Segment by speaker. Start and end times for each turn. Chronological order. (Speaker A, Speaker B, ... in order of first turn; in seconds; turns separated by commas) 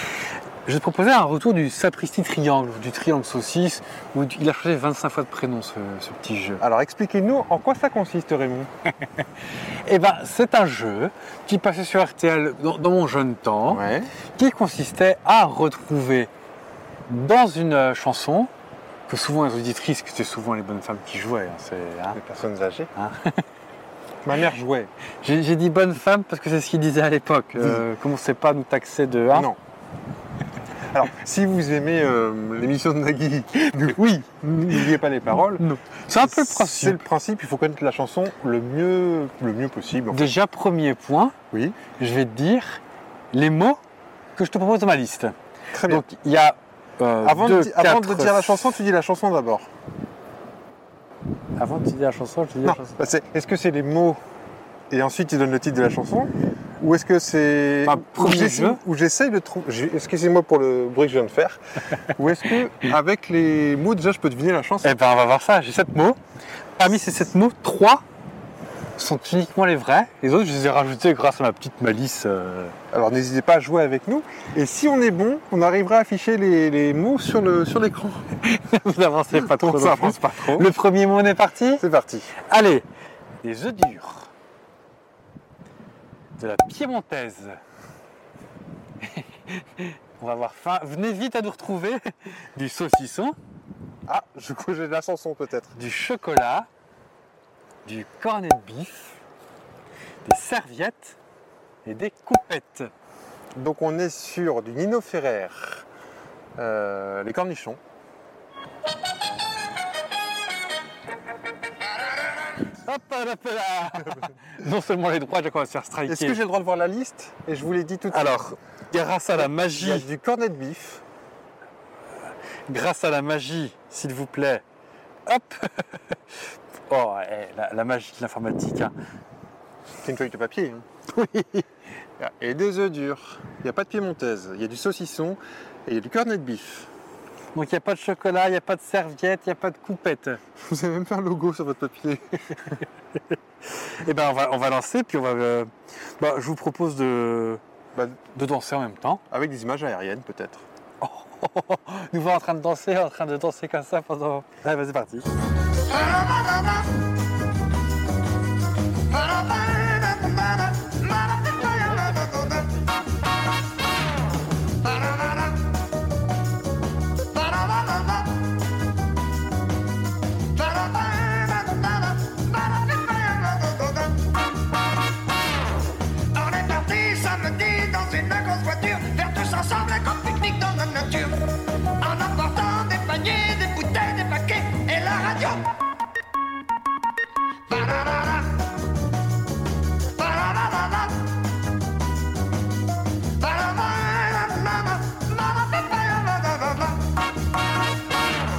Speaker A: 0.7-6.6, Speaker B: 6.6-8.7, Speaker A: 9.8-13.8, Speaker B: 13.7-14.1, Speaker A: 14.3-16.3, Speaker A: 17.1-18.5, Speaker A: 19.1-22.2, Speaker B: 22.1-22.9, Speaker A: 22.9-23.4, Speaker B: 24.2-24.9, Speaker A: 25.2-29.5, Speaker B: 27.6-27.8, Speaker B: 29.3-29.6, Speaker B: 30.9-35.6, Speaker A: 33.5-34.9, Speaker A: 35.6-37.0, Speaker B: 36.2-40.3, Speaker A: 40.1-41.4, Speaker B: 41.5-41.8, Speaker A: 41.9-42.8, Speaker A: 43.3-43.8, Speaker A: 44.4-45.3, Speaker B: 45.7-46.0, Speaker A: 45.9-48.7, Speaker B: 47.2-49.7, Speaker A: 51.5-53.0, Speaker B: 52.6-54.2, Speaker B: 54.9-65.0, Speaker A: 57.9-58.8, Speaker A: 64.8-66.2, Speaker A: 66.8-68.0, Speaker A: 69.0-72.8, Speaker B: 72.9-78.3, Speaker A: 78.4-81.8, Speaker B: 79.3-80.7, Speaker B: 81.8-82.3, Speaker A: 82.4-82.8, Speaker A: 83.4-84.3, Speaker A: 86.4-87.6, Speaker A: 89.0-93.3, Speaker B: 94.1-95.7, Speaker A: 95.7-96.7, Speaker A: 97.8-99.2, Speaker A: 100.2-101.2, Speaker A: 101.8-102.9, Speaker B: 103.5-105.8, Speaker B: 106.6-107.8, Speaker A: 112.7-116.4, Speaker B: 116.1-118.4, Speaker A: 118.1-120.1, Speaker B: 119.3-121.0, Speaker A: 122.7-124.6, Speaker A: 125.2-125.9, Speaker A: 126.9-128.9, Speaker B: 130.0-130.8, Speaker A: 131.1-131.7, Speaker B: 132.2-136.9, Speaker A: 137.5-140.4, Speaker B: 140.6-142.8, Speaker A: 143.7-147.6, Speaker A: 148.3-149.2, Speaker B: 149.3-150.6, Speaker A: 151.0-155.3, Speaker C: 155.8-156.9, Speaker C: 159.1-162.7, Speaker C: 164.8-165.6, Speaker C: 167.3-168.4, Speaker C: 170.5-174.3, Speaker C: 176.3-185.6, Speaker C: 187.7-188.7, Speaker C: 190.1-191.2, Speaker C: 193.4-197.1